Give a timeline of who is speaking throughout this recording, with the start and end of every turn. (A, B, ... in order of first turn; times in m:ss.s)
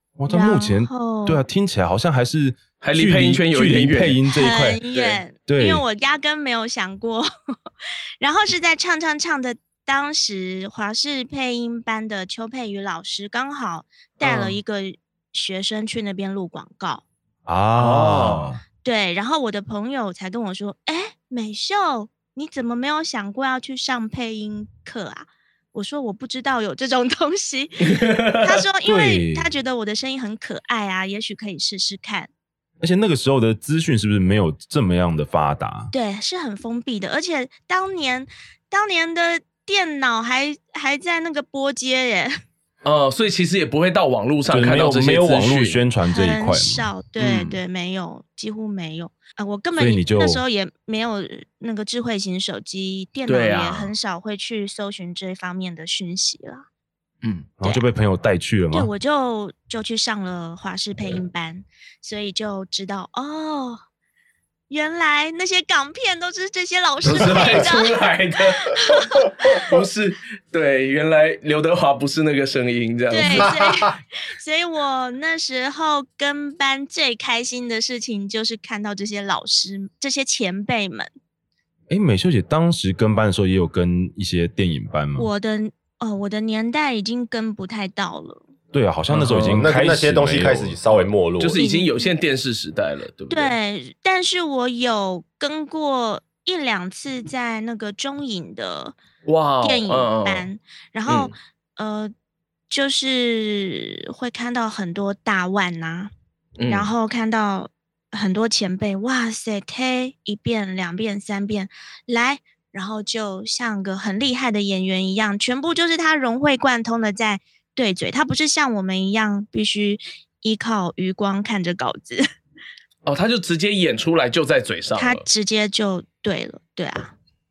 0:00.2-0:04.8 A
0:00.3-0:01.4 B
0:02.8-0:04.2 C
0:04.3-0:07.3 B
0:04.9-0:05.2 C
0:05.5-0:05.8 A
0:08.2-0:17.0 B
0:14.2-0:14.6 C
0:17.4-0:18.6 A
0:17.8-0:18.4 C
0:18.8-0:32.3 B
0:27.9-0:28.5 C
0:28.8-0:29.5 A
0:32.8-0:35.9 A
0:35.9-0:42.3 B
0:42.8-0:45.8 C
0:44.5-0:46.9 A
0:46.1-0:56.6 B
0:47.2-0:47.6 C
0:49.8-0:50.4 A
0:53.3-0:53.9 C
0:57.2-0:57.5 C
0:57.6-0:58.9 A
0:58.7-1:03.8 B
1:04.7-1:08.0 B
1:07.0-1:13.6 C
1:08.6-1:09.6 B
1:13.1-1:21.1 B
1:13.4-1:13.8 D
1:21.9-1:25.3 A
1:25.2-1:28.4 B
1:28.7-1:31.1 A
1:29.1-1:29.9 C
1:29.6-1:31.6 D
1:31.4-1:33.5 C
1:31.5-1:32.1 B
1:33.3-1:39.0 B
1:39.2-1:40.5 C
1:39.6-1:42.1 B
1:41.1-1:41.3 C
1:42.7-1:46.1 B
1:46.6-1:46.9 C
1:46.7-2:02.2 B
2:03.0-2:05.2 C
2:05.0-2:07.1 B